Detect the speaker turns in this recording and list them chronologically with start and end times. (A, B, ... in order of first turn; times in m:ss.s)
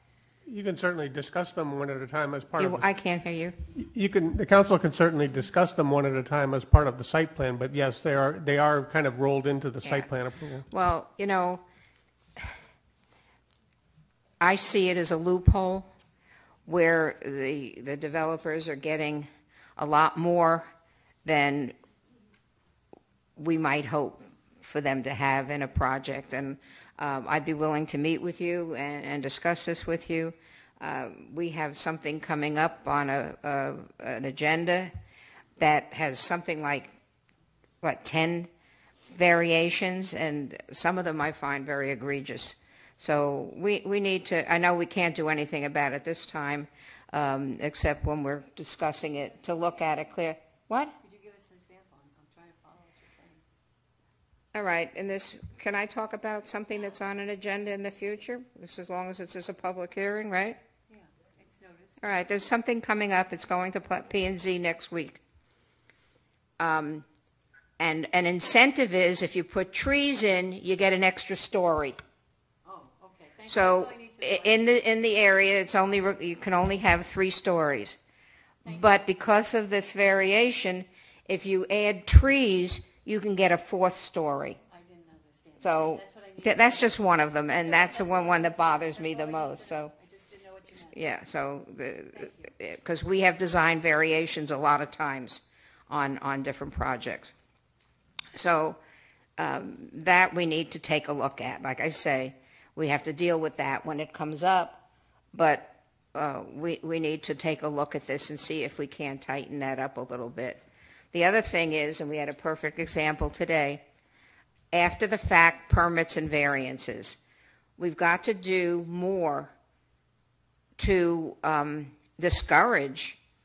0:00.4-0:02.9 A
0:02.6-0:03.6 B
0:03.8-0:10.6 A
0:10.7-0:11.6 B
0:14.4-0:15.9 B
0:16.6-0:20.7 B
0:21.2-0:21.8 B
0:23.4-0:34.9 B
0:35.6-0:36.9 B
0:37.8-0:38.5 B
0:39.1-0:50.9 B
0:51.0-0:53.4 C
0:54.5-1:00.6 B
1:00.9-1:02.0 C
1:02.0-1:05.2 B
1:06.6-1:07.0 B
1:07.8-1:12.0 B
1:12.6-1:14.8 C
1:13.5-1:18.0 B
1:18.6-1:18.9 C
1:18.6-1:24.6 B
1:24.7-1:31.0 C
1:25.6-1:29.9 B
1:30.9-1:37.3 B
1:32.1-1:32.5 C
1:38.3-1:38.8 B
1:39.4-1:44.8 B
1:45.3-1:50.6 B
1:51.1-1:53.8 B
1:54.7-1:57.2 B
1:57.8-1:59.5 B
2:00.8-2:03.2 B